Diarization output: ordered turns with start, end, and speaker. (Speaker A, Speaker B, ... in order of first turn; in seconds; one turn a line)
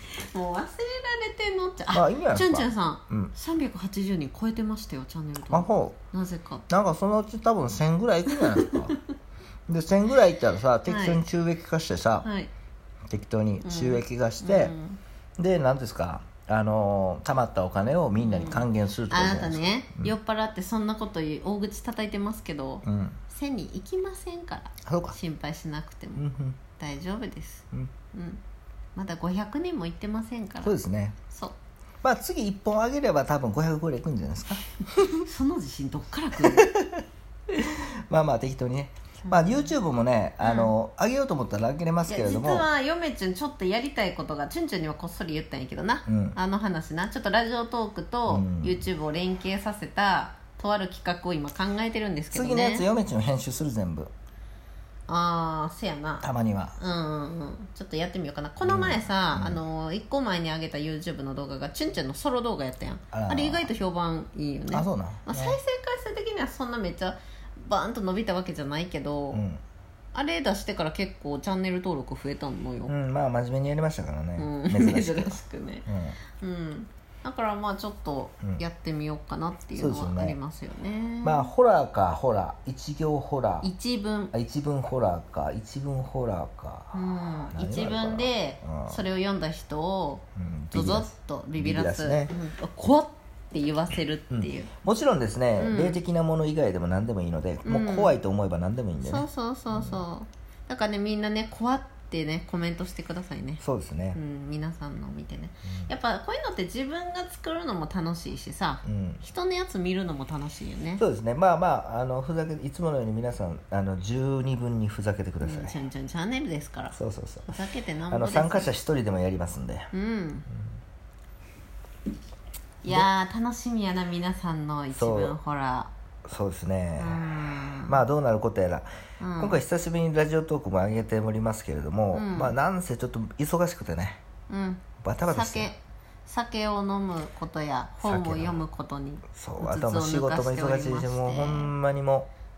Speaker A: 0.2-6.7
Speaker B: 1.9-3.3
Speaker B: 5.5-6.0
Speaker B: 6.7-9.0
Speaker A: 8.6-9.0
Speaker B: 9.7-12.3
Speaker A: 10.9-11.2
Speaker A: 12.2-12.5
Speaker B: 13.1-14.7
Speaker A: 13.6-15.0
Speaker B: 15.4-20.1
Speaker A: 18.2-26.2
Speaker B: 22.8-23.2
Speaker B: 24.8-25.1
Speaker B: 26.1-26.6
Speaker A: 26.8-28.4
Speaker A: 28.9-30.8
Speaker B: 30.6-31.2
Speaker A: 31.3-31.6
Speaker B: 32.0-34.6
Speaker A: 35.2-36.7
Speaker B: 36.4-42.7
Speaker A: 39.2-39.7
Speaker A: 40.4-40.7
Speaker A: 42.1-52.9
Speaker B: 46.0-46.4
Speaker B: 48.3-48.8
Speaker B: 52.3-54.1
Speaker A: 55.1-56.3
Speaker B: 56.2-56.8
Speaker A: 56.8-69.4
Speaker B: 58.6-59.6
Speaker B: 63.1-63.7
Speaker B: 64.7-65.6
Speaker B: 69.3-69.6
Speaker A: 70.1-72.9
Speaker B: 72.9-76.2
Speaker A: 74.4-75.8
Speaker A: 76.4-81.5
Speaker B: 79.7-80.4
Speaker B: 81.2-83.7
Speaker A: 83.6-84.3
Speaker B: 84.3-89.0
Speaker A: 86.9-94.7
Speaker B: 90.3-92.3
Speaker B: 94.3-100.0
Speaker A: 95.6-96.0
Speaker A: 97.6-98.2
Speaker A: 99.0-103.6
Speaker B: 103.6-104.2
Speaker A: 104.1-111.0
Speaker B: 105.7-105.9
Speaker B: 108.8-109.2
Speaker B: 111.0-115.7
Speaker A: 115.4-118.7
Speaker B: 116.9-117.5
Speaker B: 118.1-119.9
Speaker A: 119.9-120.5
Speaker A: 122.8-125.9
Speaker B: 124.9-125.4
Speaker B: 126.2-128.9
Speaker A: 127.0-128.0
Speaker A: 129.2-129.6
Speaker B: 129.4-134.2
Speaker A: 132.1-132.6
Speaker A: 134.5-141.7
Speaker B: 135.0-135.7
Speaker B: 138.0-138.6
Speaker B: 139.3-142.3